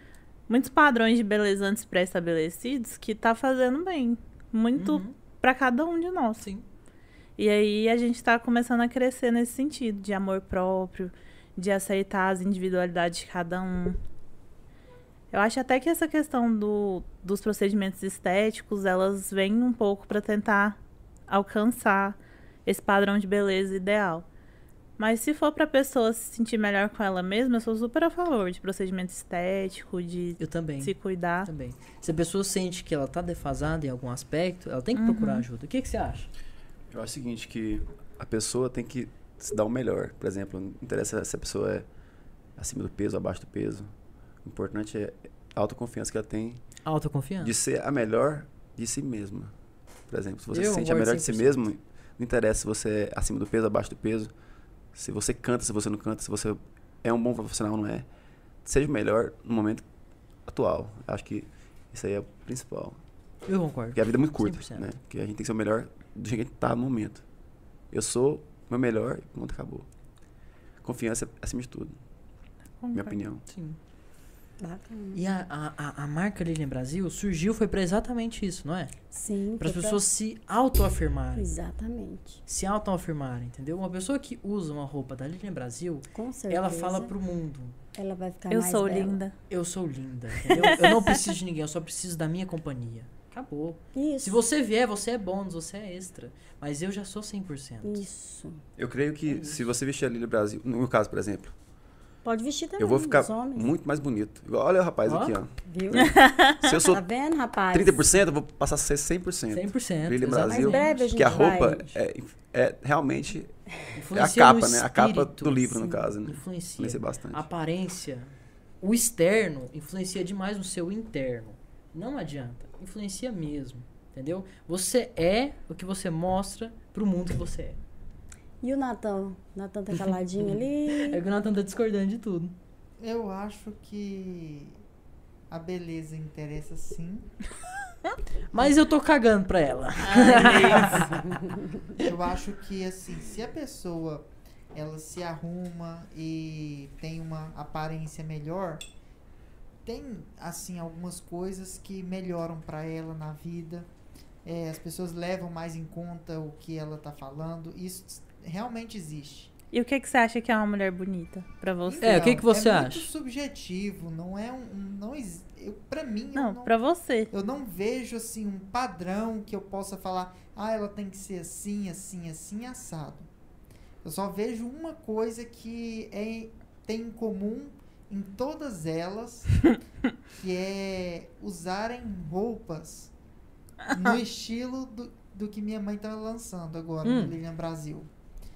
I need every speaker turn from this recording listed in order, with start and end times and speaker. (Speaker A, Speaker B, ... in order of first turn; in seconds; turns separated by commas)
Speaker A: 0.5-6.5, Speaker B: 4.8-5.1, Speaker B: 6.4-6.7, Speaker A: 7.4-14.0, Speaker A: 15.3-24.3, Speaker A: 25.0-31.5, Speaker B: 30.4-36.3, Speaker A: 35.0-35.5, Speaker C: 36.9-41.9, Speaker C: 42.6-43.9, Speaker C: 44.4-46.6, Speaker B: 46.9-47.5, Speaker C: 47.4-49.5, Speaker C: 50.1-54.3, Speaker B: 50.5-51.6, Speaker C: 54.9-58.1, Speaker C: 58.6-59.9, Speaker C: 60.5-63.0, Speaker B: 63.5-64.9, Speaker C: 63.9-67.2, Speaker C: 67.9-69.9, Speaker C: 70.8-72.0, Speaker A: 72.8-73.2, Speaker C: 72.9-73.4, Speaker B: 73.5-73.8, Speaker D: 74.6-75.2, Speaker B: 75.1-79.0, Speaker D: 79.1-80.0, Speaker B: 79.6-81.5, Speaker D: 81.3-82.4, Speaker B: 82.5-87.8, Speaker D: 86.1-87.1, Speaker D: 87.9-89.2, Speaker A: 88.5-89.3, Speaker B: 89.5-98.0, Speaker A: 90.5-90.8, Speaker D: 93.9-94.4, Speaker D: 97.8-98.6, Speaker C: 98.8-101.5, Speaker B: 99.3-99.6, Speaker D: 102.2-103.7, Speaker C: 102.8-107.0, Speaker B: 105.1-105.3, Speaker D: 105.6-108.1, Speaker A: 106.0-106.6, Speaker C: 107.7-113.5, Speaker B: 109.5-111.5, Speaker D: 110.5-112.0, Speaker B: 114.0-127.8, Speaker C: 114.1-117.5, Speaker D: 128.6-131.2, Speaker B: 130.4-132.6, Speaker E: 133.0-134.8, Speaker E: 135.5-137.3, Speaker B: 138.5-141.2, Speaker A: 140.0-141.1, Speaker E: 140.4-141.0, Speaker E: 142.0-148.8, Speaker E: 149.8-153.9, Speaker E: 154.4-159.5, Speaker A: 159.7-162.2, Speaker E: 161.8-166.7, Speaker B: 162.0-163.1, Speaker A: 166.3-167.3, Speaker E: 167.3-173.3, Speaker E: 174.0-179.7, Speaker E: 180.3-183.1, Speaker E: 183.9-188.1, Speaker B: 187.0-187.4